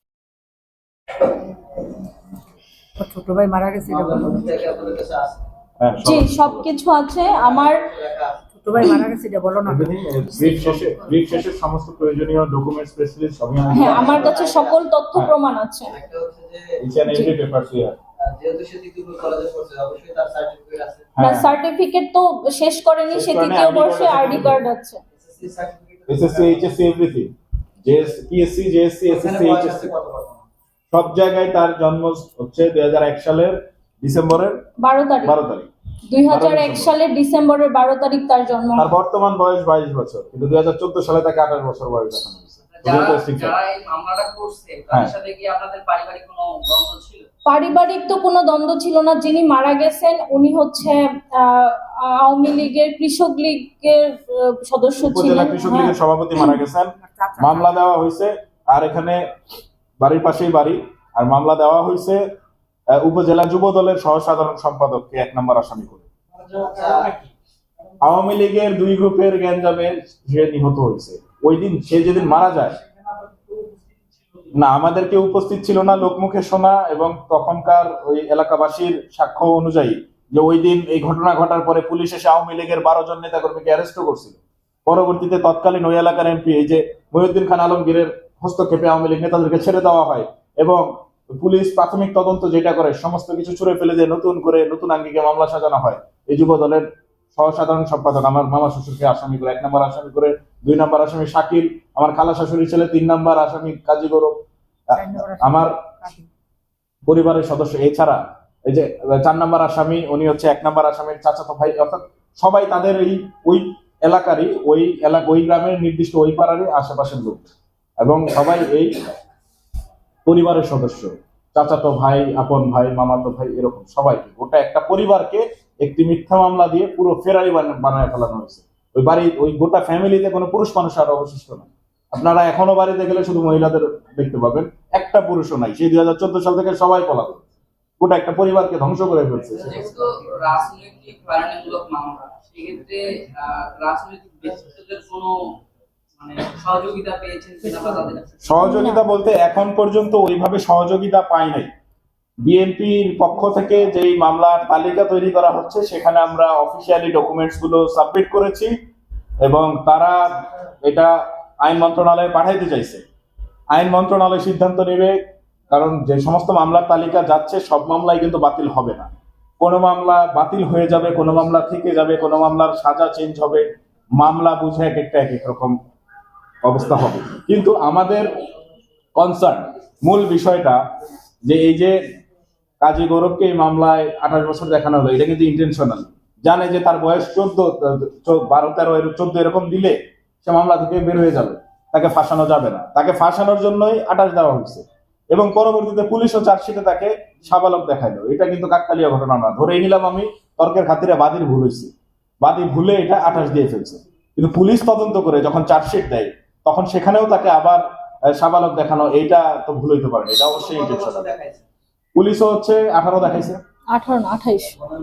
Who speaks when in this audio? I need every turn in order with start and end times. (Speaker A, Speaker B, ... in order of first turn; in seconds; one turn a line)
Speaker A: 3.0-4.7
Speaker B: 3.9-5.4
Speaker C: 5.8-6.7
Speaker D: 6.0-7.9
Speaker B: 7.3-8.4
Speaker A: 8.5-11.3
Speaker C: 9.7-14.4
Speaker B: 13.6-14.8
Speaker D: 13.7-15.9
Speaker B: 15.9-16.8
Speaker C: 16.8-18.0
Speaker D: 17.1-17.3
Speaker B: 18.2-21.1
Speaker C: 21.1-21.5
Speaker D: 21.2-25.0
Speaker C: 23.1-24.6
Speaker B: 25.1-26.7
Speaker C: 26.1-27.3
Speaker C: 27.8-29.9
Speaker B: 29.1-30.4
Speaker C: 30.9-34.6
Speaker D: 34.8-35.4
Speaker C: 35.2-35.7
Speaker D: 36.1-38.9
Speaker C: 36.2-36.9
Speaker C: 38.8-43.5
Speaker E: 42.7-47.3
Speaker D: 47.5-56.6
Speaker C: 55.0-59.2
Speaker A: 57.0-57.8
Speaker C: 60.0-62.2
Speaker C: 62.9-66.1
Speaker B: 66.4-67.2
Speaker C: 68.0-72.8
Speaker C: 74.5-104.3
Speaker A: 104.9-106.3
Speaker C: 104.9-105.7
Speaker C: 107.0-117.5
Speaker C: 118.0-119.1
Speaker C: 120.2-137.4
Speaker C: 138.0-139.8
Speaker E: 139.6-145.5
Speaker E: 146.2-148.4
Speaker C: 148.4-151.7
Speaker D: 148.6-149.1
Speaker C: 152.4-158.7
Speaker C: 159.4-163.0
Speaker C: 163.7-165.2
Speaker C: 165.7-175.8
Speaker C: 176.6-178.4
Speaker C: 179.2-180.8
Speaker C: 181.4-182.0
Speaker C: 182.8-211.3
Speaker E: 210.4-211.3
Speaker B: 210.6-211.6
Speaker C: 212.2-213.6
Speaker D: 213.9-214.8